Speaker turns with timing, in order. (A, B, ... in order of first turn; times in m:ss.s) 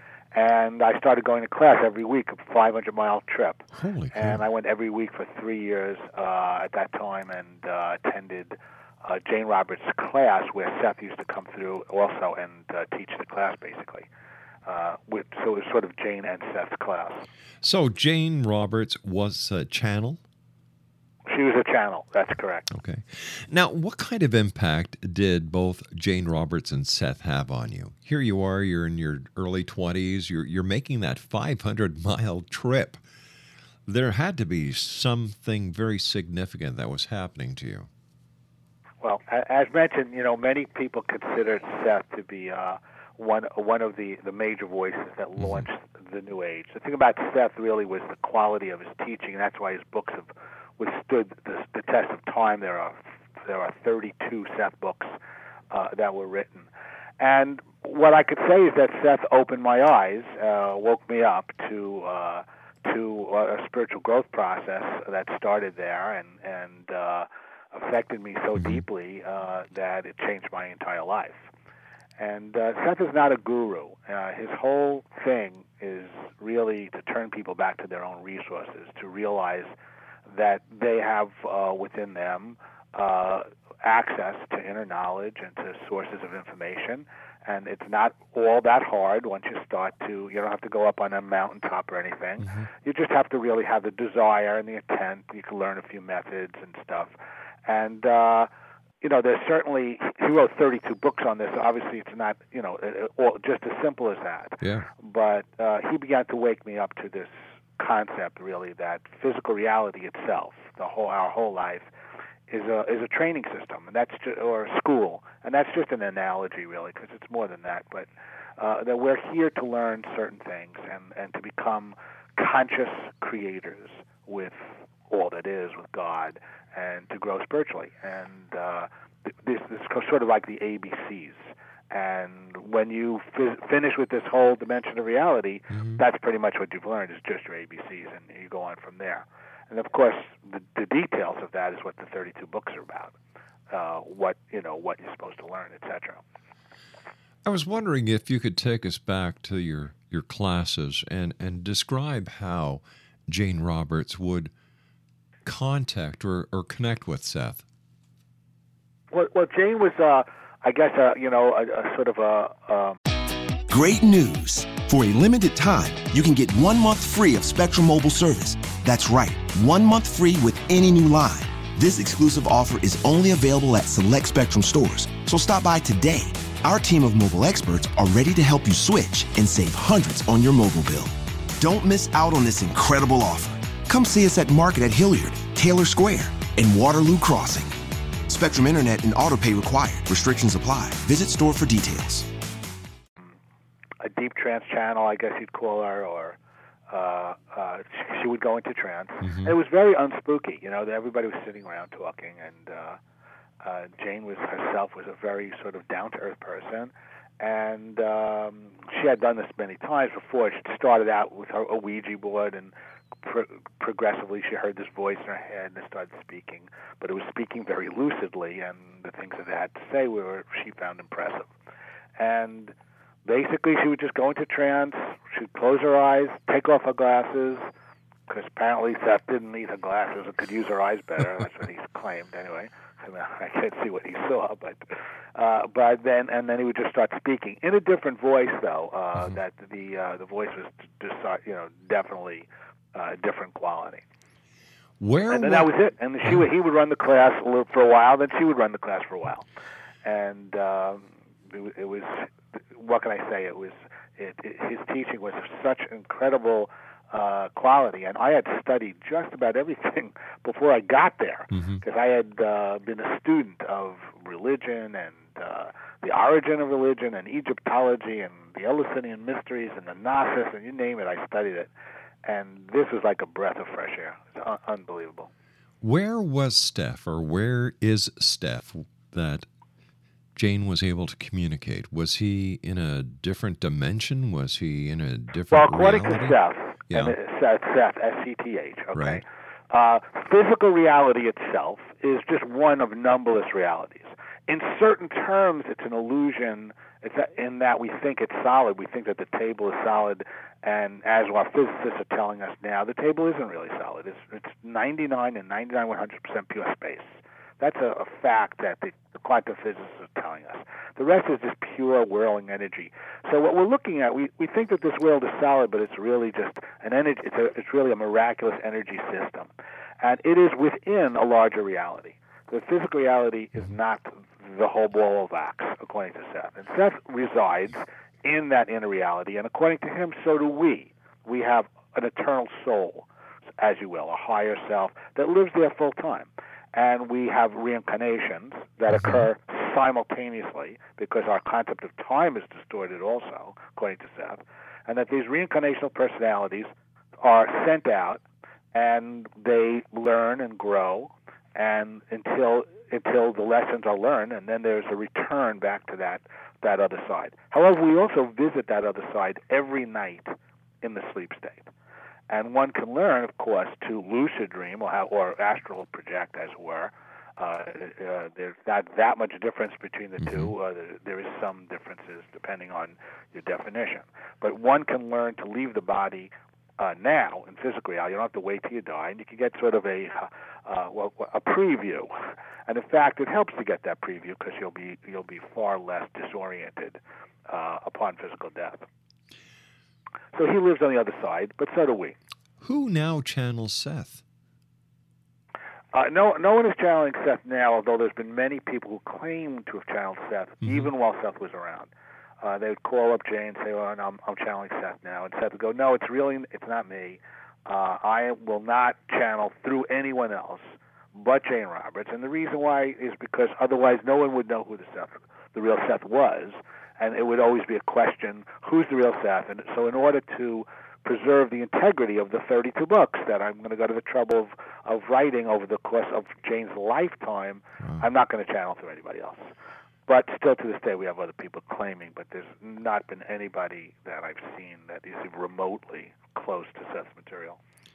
0:00.3-0:14.1 A
0:03.7-0:04.4 B
0:14.6-0:17.2 A
0:17.6-0:20.2 B
0:21.3-0:22.7 A
0:22.7-0:33.0 B
0:33.8-0:37.9 B
0:39.0-0:55.1 A
0:45.4-0:45.6 B
0:55.7-0:56.7 A
0:57.2-1:11.5 A
1:08.6-1:08.8 B
1:12.2-1:19.7 A
1:20.3-1:37.1 A
1:32.4-1:32.7 B
1:37.7-1:38.5 A
1:39.0-1:51.9 A
1:44.6-1:44.9 B
1:52.5-1:58.1 A
1:58.6-2:23.1 A
2:15.7-2:16.0 B
2:23.7-2:26.2 A
2:27.4-2:34.5 B
2:35.4-2:37.6 B
2:39.1-2:43.0 A
2:43.7-3:07.7 C
3:08.3-3:12.3 C
3:14.0-3:16.4 A
3:16.9-3:23.0 A
3:19.2-3:19.5 B
3:23.6-3:41.5 A
3:42.2-3:42.7 A
3:43.2-3:47.7 A
3:48.3-4:04.0 A
4:05.0-4:05.7 B
4:05.3-4:09.4 A
4:10.0-4:31.7 A
4:21.5-4:21.8 B
4:32.2-4:35.3 A
4:35.8-4:39.5 B
4:40.3-4:47.2 B
4:45.5-5:19.5 A
4:48.9-4:49.2 B
5:20.0-5:33.1 A
5:33.6-6:01.7 A
5:38.9-5:39.2 B
6:02.3-6:22.1 A
6:10.2-6:10.5 B
6:22.7-6:28.8 A
6:30.3-6:32.2 A
6:32.6-6:34.2 B
6:35.9-6:41.9 A
6:40.6-6:40.9 B
6:42.4-7:09.5 A
7:07.8-7:08.0 B
7:10.1-7:17.6 A